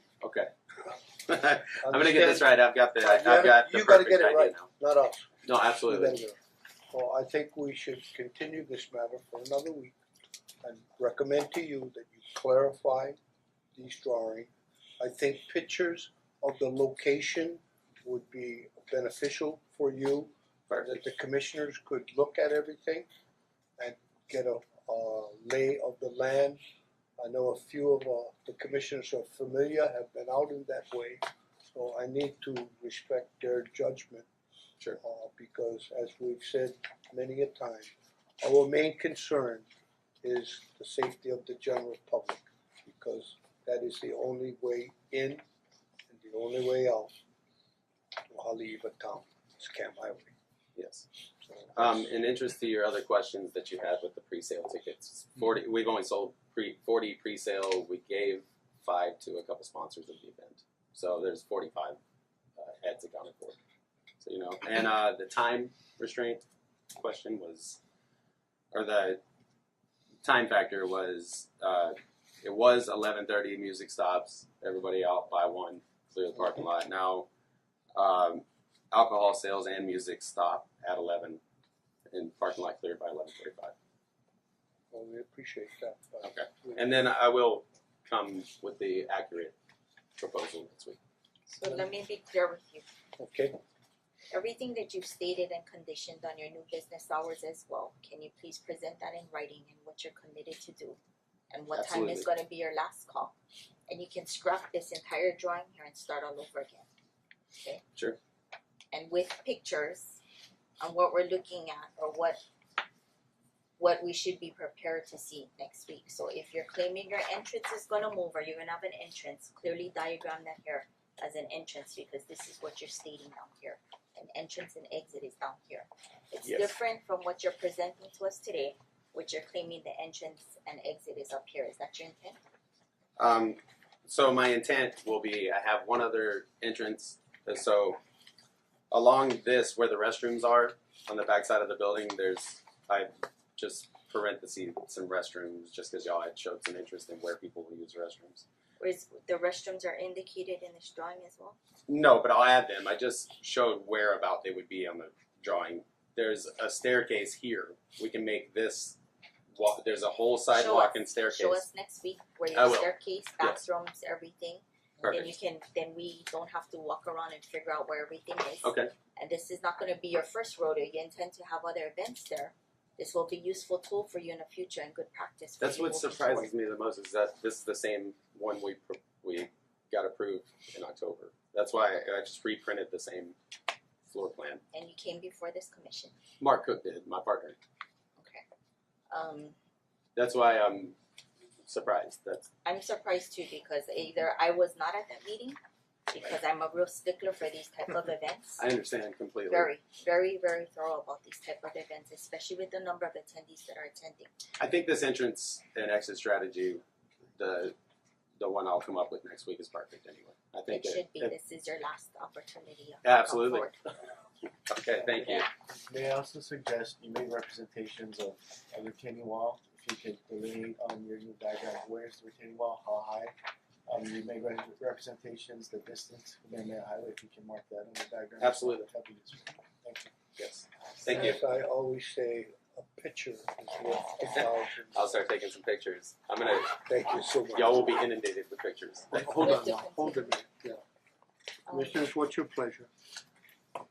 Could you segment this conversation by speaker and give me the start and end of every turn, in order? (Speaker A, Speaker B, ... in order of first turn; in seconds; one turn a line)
Speaker A: 0.2-0.5
Speaker A: 1.3-4.7
Speaker B: 1.8-6.4
Speaker A: 5.4-6.2
Speaker B: 6.9-9.9
Speaker B: 10.6-13.2
Speaker B: 13.7-23.1
Speaker B: 23.8-26.6
Speaker B: 27.2-31.2
Speaker B: 31.7-34.3
Speaker B: 35.0-39.6
Speaker B: 40.2-45.4
Speaker B: 46.1-47.2
Speaker B: 48.3-50.3
Speaker A: 50.8-51.0
Speaker A: 51.7-62.0
Speaker A: 62.6-63.6
Speaker A: 64.2-66.4
Speaker A: 67.0-67.8
Speaker A: 68.7-69.2
Speaker A: 70.2-77.3
Speaker A: 77.9-81.4
Speaker A: 82.1-83.7
Speaker B: 84.9-86.8
Speaker A: 86.2-89.5
Speaker A: 90.2-91.0
Speaker C: 91.5-92.8
Speaker B: 93.2-93.5
Speaker C: 94.3-101.0
Speaker C: 101.5-103.3
Speaker A: 101.7-102.3
Speaker C: 103.9-106.9
Speaker C: 107.6-107.8
Speaker C: 108.9-110.2
Speaker C: 110.8-112.4
Speaker C: 113.8-132.4
Speaker A: 126.4-126.7
Speaker A: 133.2-138.0
Speaker A: 138.9-148.4
Speaker C: 148.8-151.6
Speaker A: 151.9-159.0
Speaker A: 159.6-161.6
Speaker C: 160.5-176.5
Speaker A: 162.5-163.6
Speaker A: 165.0-165.3
Speaker A: 168.6-168.9
Speaker A: 175.6-183.3
Speaker A: 184.1-184.6
Speaker C: 184.7-186.1
Speaker A: 186.4-187.6
Speaker C: 188.2-188.4
Speaker C: 189.1-189.5
Speaker A: 190.2-190.9
Speaker A: 191.7-192.5
Speaker C: 192.6-195.6
Speaker C: 196.1-198.6
Speaker A: 198.6-199.7
Speaker C: 199.5-204.3
Speaker A: 204.6-206.8
Speaker A: 207.3-207.7
Speaker A: 208.4-211.3
Speaker C: 210.7-213.8
Speaker A: 213.0-213.7
Speaker A: 214.7-215.5
Speaker D: 215.4-223.3
Speaker D: 223.9-230.1
Speaker A: 228.4-228.8
Speaker A: 230.4-231.4
Speaker B: 231.1-235.2
Speaker A: 234.4-236.8
Speaker B: 236.8-237.9
Speaker A: 237.5-239.5
Speaker B: 239.1-240.8
Speaker C: 239.4-240.3
Speaker C: 241.7-242.1
Speaker B: 241.7-242.9